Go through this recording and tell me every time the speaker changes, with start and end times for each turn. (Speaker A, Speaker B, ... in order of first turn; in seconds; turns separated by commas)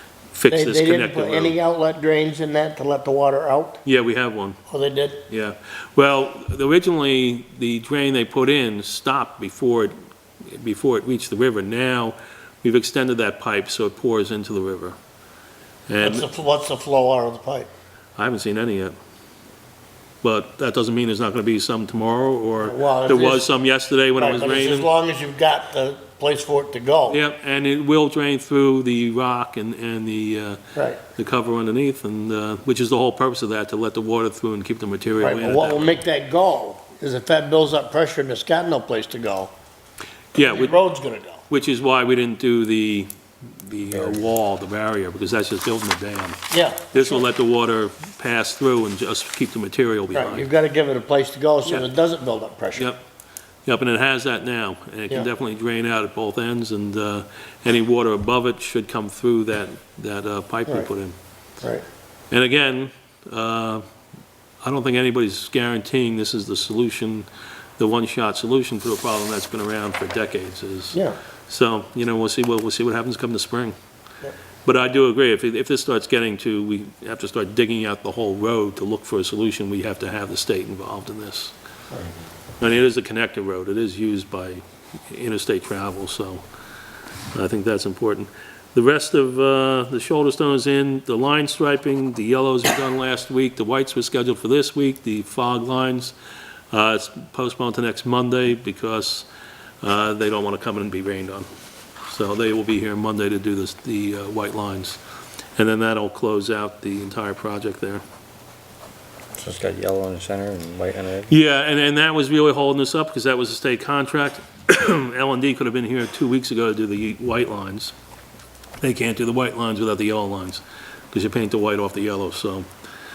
Speaker A: 0.3-1.6, Speaker B: 0.5-3.8, Speaker A: 3.9-4.6, Speaker B: 4.7-5.2, Speaker A: 5.3-15.0, Speaker A: 15.9-16.3, Speaker B: 16.0-17.7, Speaker A: 18.2-18.9, Speaker A: 20.2-24.9, Speaker B: 22.6-23.5, Speaker B: 24.2-27.2, Speaker A: 27.1-36.0, Speaker B: 35.2-39.5, Speaker A: 40.4-40.8, Speaker B: 40.4-41.4, Speaker A: 41.5-46.4, Speaker B: 46.5-47.2, Speaker A: 46.9-50.5, Speaker B: 50.1-52.9, Speaker A: 52.8-53.0, Speaker A: 53.7-61.1, Speaker A: 62.3-63.8, Speaker A: 64.6-73.8, Speaker A: 74.7-81.5, Speaker A: 82.6-86.4, Speaker A: 87.3-96.2, Speaker A: 96.7-99.3, Speaker A: 99.8-101.5, Speaker A: 102.1-105.0, Speaker A: 105.6-108.0, Speaker C: 109.4-111.3, Speaker A: 111.3-117.9, Speaker A: 118.8-122.7